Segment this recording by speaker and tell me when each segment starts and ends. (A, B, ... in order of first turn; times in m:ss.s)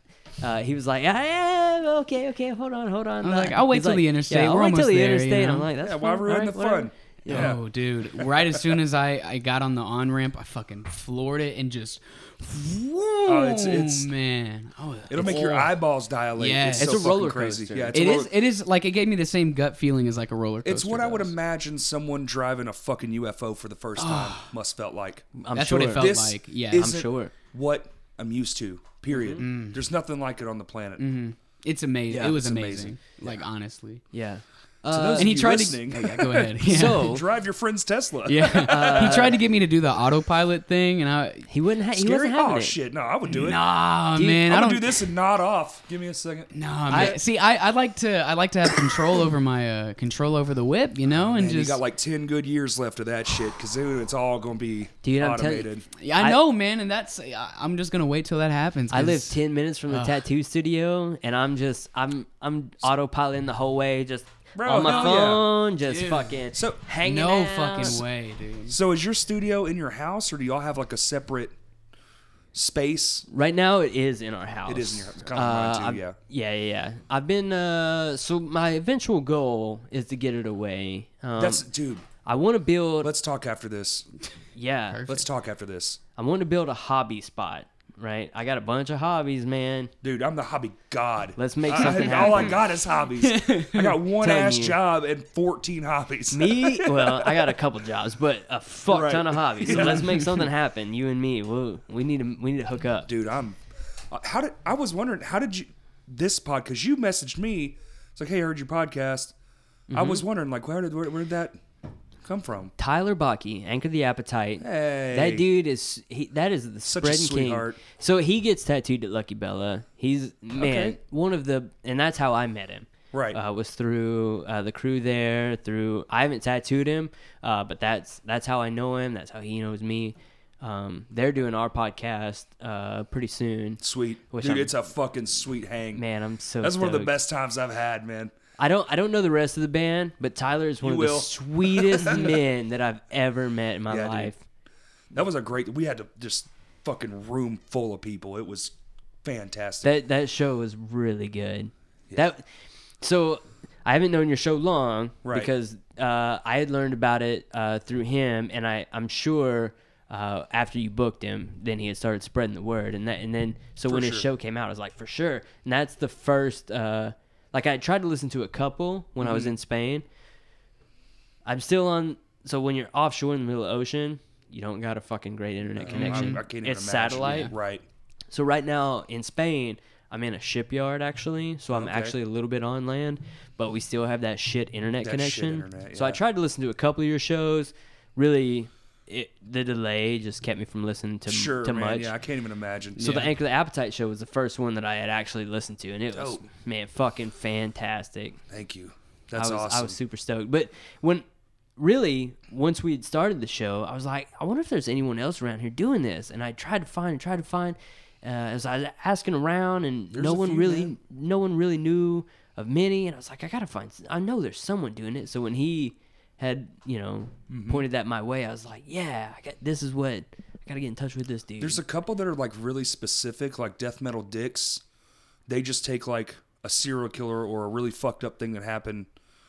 0:00.4-0:07.6 A
0:03.2-0:05.7 B
0:05.8-0:07.6 C
0:07.3-0:15.8 B
0:08.2-0:08.8 C
0:13.3-0:14.1 C
0:15.1-0:18.3 C
0:16.4-0:17.2 B
0:16.8-0:18.3 A
0:17.9-0:21.3 B
0:20.6-0:25.3 C
0:24.0-0:24.5 B
0:25.4-0:26.1 A
0:25.6-0:27.0 B
0:25.9-0:31.1 C
0:26.7-0:27.3 A
0:29.1-0:29.5 A
0:29.4-0:29.8 B
0:31.0-0:34.0 B
0:32.1-0:32.4 A
0:32.2-0:33.4 C
0:34.1-0:35.3 A
0:34.9-0:39.4 C
0:35.2-0:37.2 B
0:36.6-0:37.2 A
0:38.3-0:41.5 B
0:38.6-0:39.4 A
0:41.5-0:42.8 A
0:42.0-0:43.6 C
0:43.3-0:45.1 B
0:44.2-0:44.4 A
0:44.4-0:47.2 C
0:46.5-0:51.8 B
0:46.9-0:47.2 A
0:51.3-0:55.9 C
0:55.0-0:56.4 A
0:56.0-0:59.4 B
0:58.9-1:08.0 A
0:59.9-1:00.2 B
1:04.6-1:05.5 C
1:04.8-1:05.3 B
1:05.9-1:06.4 B
1:06.5-1:06.8 C
1:07.0-1:08.8 B
1:08.7-1:11.6 C
1:12.5-1:13.3 C
1:13.3-1:21.7 A
1:14.7-1:16.2 C
1:21.4-1:22.1 C
1:22.2-1:23.1 A
1:23.0-1:24.1 C
1:24.6-1:25.1 A
1:24.9-1:25.2 B
1:25.1-1:26.0 C
1:26.2-1:29.9 A
1:30.0-1:37.6 C
1:31.4-1:32.6 A
1:31.8-1:32.6 B
1:33.2-1:34.0 B
1:34.2-1:34.8 A
1:36.3-1:43.1 A
1:38.9-1:40.2 C
1:43.1-1:43.6 C
1:44.1-1:49.3 C
1:49.9-1:50.2 A
1:49.9-1:51.6 C
1:52.2-1:52.7 C
1:52.8-2:14.7 A
1:54.6-1:55.4 C
1:56.8-1:57.8 C
2:00.6-2:01.0 C
2:03.1-2:03.4 C
2:13.8-2:16.0 C
2:16.0-2:17.2 A
2:16.6-2:18.3 C
2:18.6-2:24.4 A
2:20.8-2:22.4 C
2:23.9-2:24.3 C
2:25.1-2:29.9 C
2:29.8-2:32.5 A
2:33.0-2:50.0 A
2:35.2-2:35.5 C
2:43.9-2:44.3 C
2:49.2-2:49.6 C
2:51.4-2:57.5 A
2:55.8-2:57.8 C
2:55.9-2:56.4 B
2:57.2-2:57.5 B
2:58.3-3:12.1 A
3:01.7-3:02.2 C
3:05.0-3:06.2 C
3:11.3-3:13.2 C
3:13.0-3:13.3 B
3:13.0-3:18.4 A
3:16.1-3:16.4 C
3:18.5-3:20.0 C
3:19.4-3:21.2 A
3:21.8-3:41.8 A
3:30.1-3:31.0 C
3:37.5-3:37.8 C
3:41.6-3:44.8 C
3:45.5-3:49.1 C